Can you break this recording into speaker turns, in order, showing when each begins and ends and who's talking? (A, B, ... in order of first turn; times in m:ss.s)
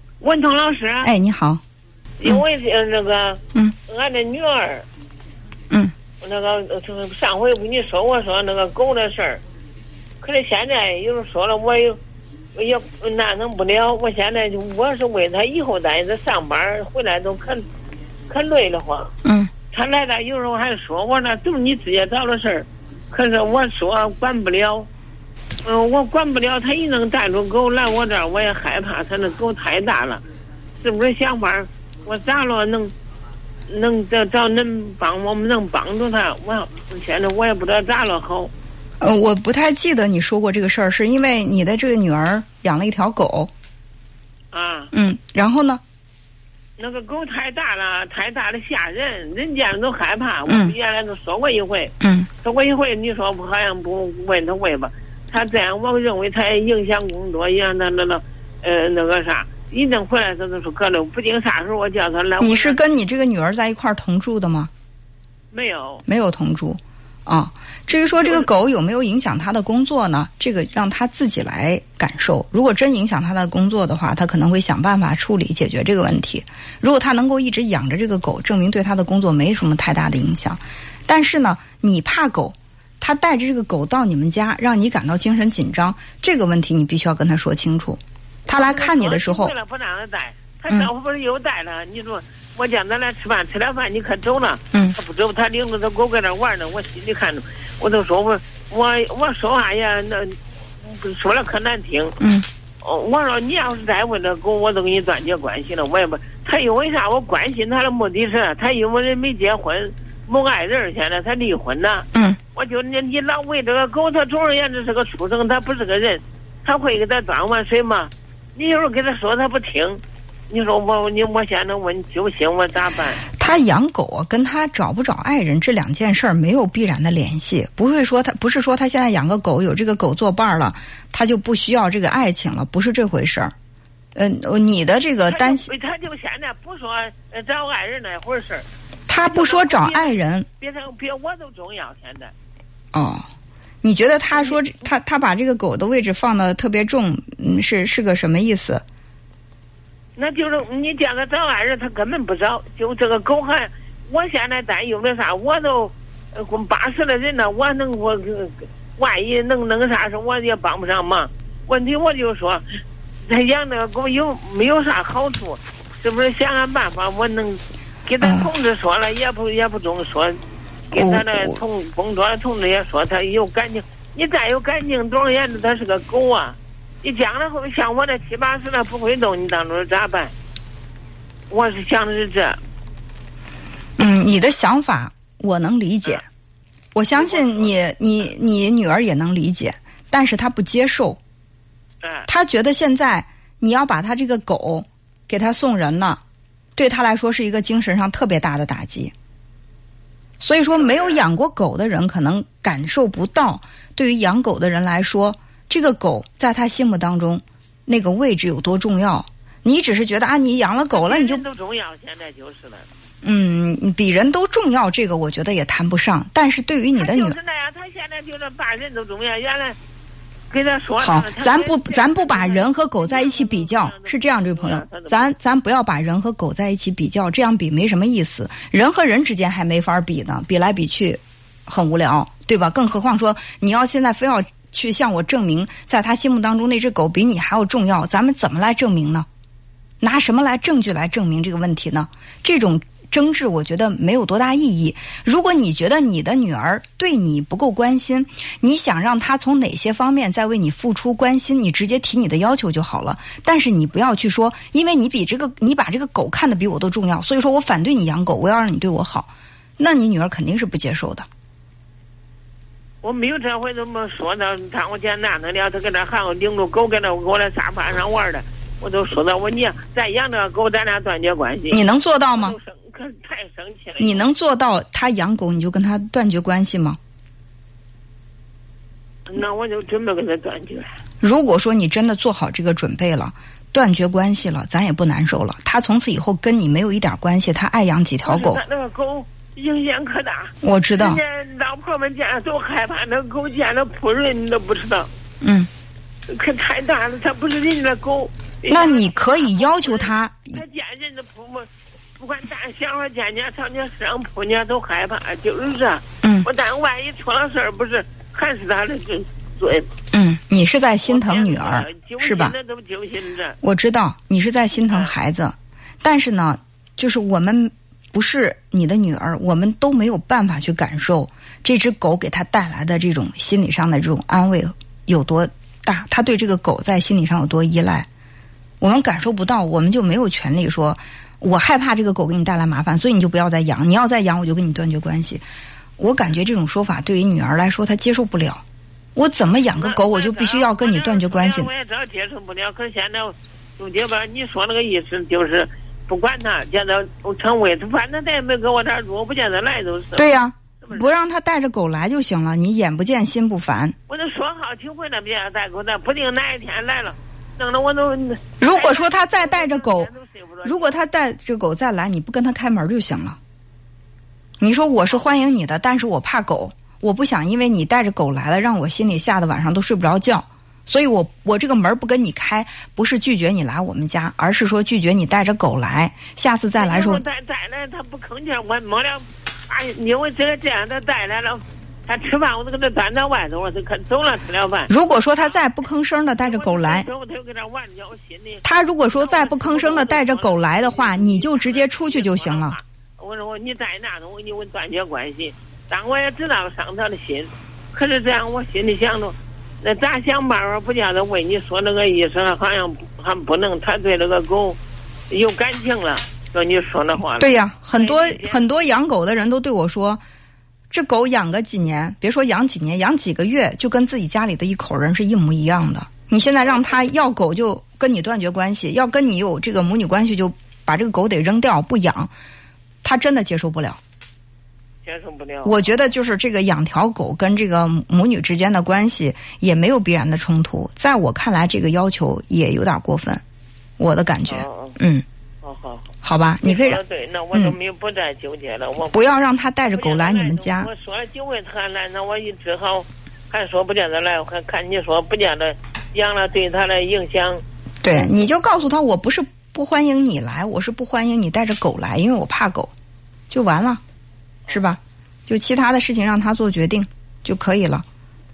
0:00.2-0:01.1 A
0:01.0-0:01.6 B
0:02.2-0:04.9 A
0:06.2-0:09.4 A
0:10.2-0:12.0 A
0:12.6-0:17.6 A
0:18.3-0:19.1 A
0:19.2-0:19.5 B
0:19.7-0:24.9 A
0:25.6-0:30.2 A
0:30.8-0:32.9 A
0:33.7-0:38.5 A
0:39.0-0:43.5 B
0:44.5-0:44.9 A
0:44.9-0:45.8 B
0:46.8-1:02.8 A
0:50.5-0:50.7 B
0:52.0-0:52.3 B
1:02.4-1:04.7 B
1:05.5-1:06.0 A
1:06.1-1:29.5 B
1:08.1-1:08.5 A
1:28.5-1:42.2 A
1:42.2-1:42.5 B
1:42.8-2:03.3 A
2:03.3-2:13.5 B
2:14.2-2:15.7 B
2:15.3-2:18.7 A
2:19.1-2:20.5 B
2:19.2-2:22.3 A
2:22.9-2:23.3 B
2:23.8-2:28.8 B
2:24.3-2:24.6 A
2:30.2-2:42.6 A
2:43.2-3:00.3 A
2:48.2-2:48.5 B
2:50.9-2:51.6 B
3:01.5-3:02.6 A
3:04.0-3:06.2 B
3:06.9-3:11.2 B
3:07.1-3:07.8 A
3:12.0-3:12.3 A
3:12.3-3:16.2 B
3:16.8-3:19.1 B
3:20.4-3:31.4 B
3:20.7-3:21.2 A
3:30.9-3:32.9 A
3:33.2-3:37.4 B
3:37.0-3:39.8 A
3:40.5-3:45.3 A
3:41.0-3:59.3 B
4:00.0-4:21.3 B
4:23.0-4:31.8 A
4:31.7-4:32.6 B
4:32.4-4:34.3 A
4:34.0-4:37.0 B
4:39.3-4:41.0 A
4:41.2-4:48.6 B
4:48.2-4:55.1 A
4:50.6-4:51.2 B
4:55.4-4:55.7 B
4:56.3-5:09.9 A
4:58.7-5:00.6 B
5:06.2-5:06.5 B
5:10.1-5:12.6 B
5:11.0-5:13.6 A
5:13.6-5:28.1 B
5:28.8-5:35.4 B
5:36.0-5:38.6 B
5:39.2-5:41.7 B
5:39.6-5:51.1 A
5:50.2-5:54.0 B
5:54.1-6:01.0 A
5:58.6-6:00.1 B
6:00.6-6:03.4 B
6:04.6-6:17.2 B
6:16.8-6:24.9 A
6:24.9-6:27.1 B
6:26.4-6:44.8 A
6:28.6-6:32.8 B
6:45.3-6:48.8 A
6:47.4-6:50.2 B
6:50.9-7:02.3 B
6:56.6-6:57.0 A
7:03.0-7:04.0 B
7:05.0-7:05.8 A
7:05.6-7:13.4 B
7:14.0-7:15.2 B
7:14.5-7:15.0 A
7:15.6-7:19.3 A
7:16.2-7:17.0 B
7:19.1-7:20.9 B
7:19.8-7:27.6 A
7:28.0-7:32.9 B
7:33.5-7:34.0 B
7:34.7-7:38.0 B